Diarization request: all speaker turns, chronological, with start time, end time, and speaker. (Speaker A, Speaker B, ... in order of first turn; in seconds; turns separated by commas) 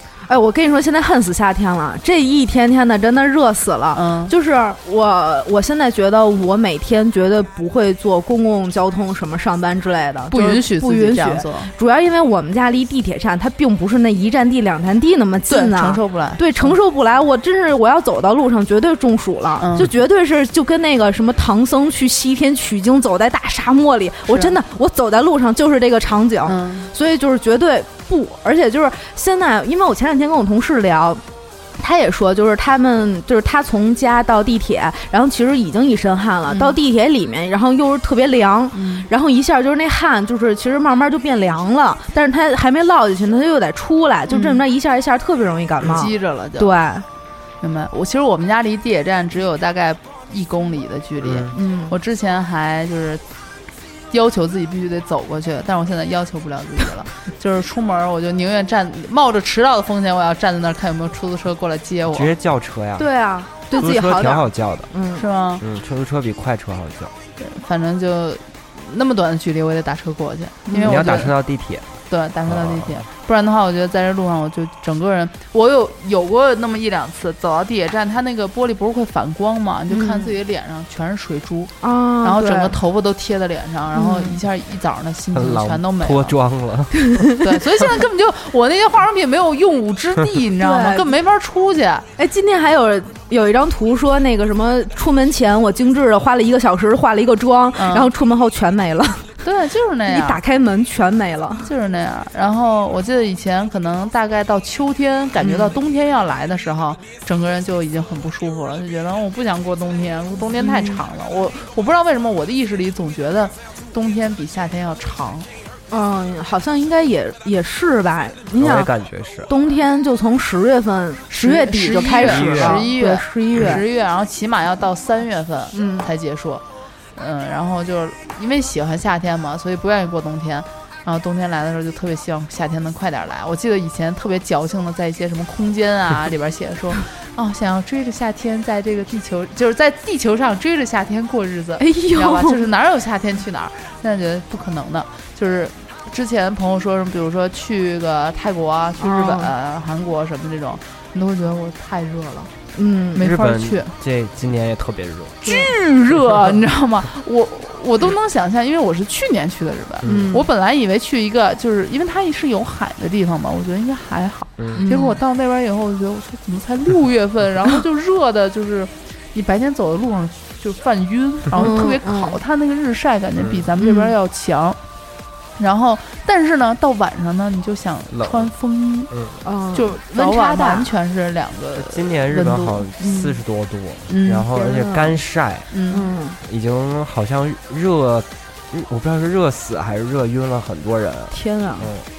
Speaker A: 0.3-31.2, Speaker B: 3.9-4.3, Speaker B: 10.3-11.7, Speaker B: 15.5-16.8, Speaker B: 19.6-19.9, Speaker B: 24.3-24.6, Speaker B: 26.4-26.9, Speaker A: 31.8-47.1, Speaker B: 36.5-36.8, Speaker B: 38.7-39.1, Speaker B: 44.3-44.6, Speaker B: 45.8-46.7, Speaker B: 47.6-53.2, Speaker C: 51.2-51.5, Speaker A: 51.5-51.9, Speaker B: 54.1-62.3, Speaker C: 62.1-63.1, Speaker A: 63.0-65.2, Speaker C: 63.7-64.9, Speaker B: 65.2-65.6, Speaker C: 65.6-67.1, Speaker B: 67.4-71.3, Speaker A: 70.7-71.2, Speaker C: 70.8-71.9, Speaker B: 72.1-86.4, Speaker C: 72.5-72.9, Speaker A: 79.9-80.3, Speaker A: 81.8-82.8, Speaker A: 83.9-84.4, Speaker C: 85.3-87.2, Speaker A: 87.0-87.5, Speaker B: 87.4-92.1, Speaker A: 90.6-91.1, Speaker A: 92.2-99.3, Speaker B: 97.8-98.1, Speaker B: 99.4-100.4, Speaker A: 100.1-101.7, Speaker B: 101.6-115.5, Speaker A: 105.4-105.8, Speaker A: 110.6-111.0, Speaker A: 115.9-118.9, Speaker C: 118.6-119.5, Speaker A: 119.5-123.8, Speaker B: 121.3-126.6, Speaker C: 122.2-122.8, Speaker A: 125.7-126.1, Speaker B: 127.2-152.5, Speaker A: 141.8-142.6, Speaker A: 149.0-149.5, Speaker A: 152.7-153.2, Speaker B: 153.2-153.9, Speaker C: 153.2-155.4, Speaker B: 155.4-174.8, Speaker C: 156.3-156.5, Speaker C: 160.0-160.3, Speaker A: 160.0-160.5, Speaker A: 164.7-165.2, Speaker A: 171.5-172.4, Speaker C: 173.4-173.7, Speaker A: 173.8-174.1, Speaker B: 175.6-179.1, Speaker C: 178.1-178.5, Speaker C: 179.1-179.4, Speaker A: 179.4-180.9, Speaker B: 179.7-182.9, Speaker C: 181.8-185.7, Speaker A: 183.0-183.4, Speaker B: 184.1-184.5, Speaker A: 184.5-185.2, Speaker B: 185.7-186.1, Speaker A: 185.9-186.4, Speaker C: 186.4-192.1, Speaker A: 191.3-191.9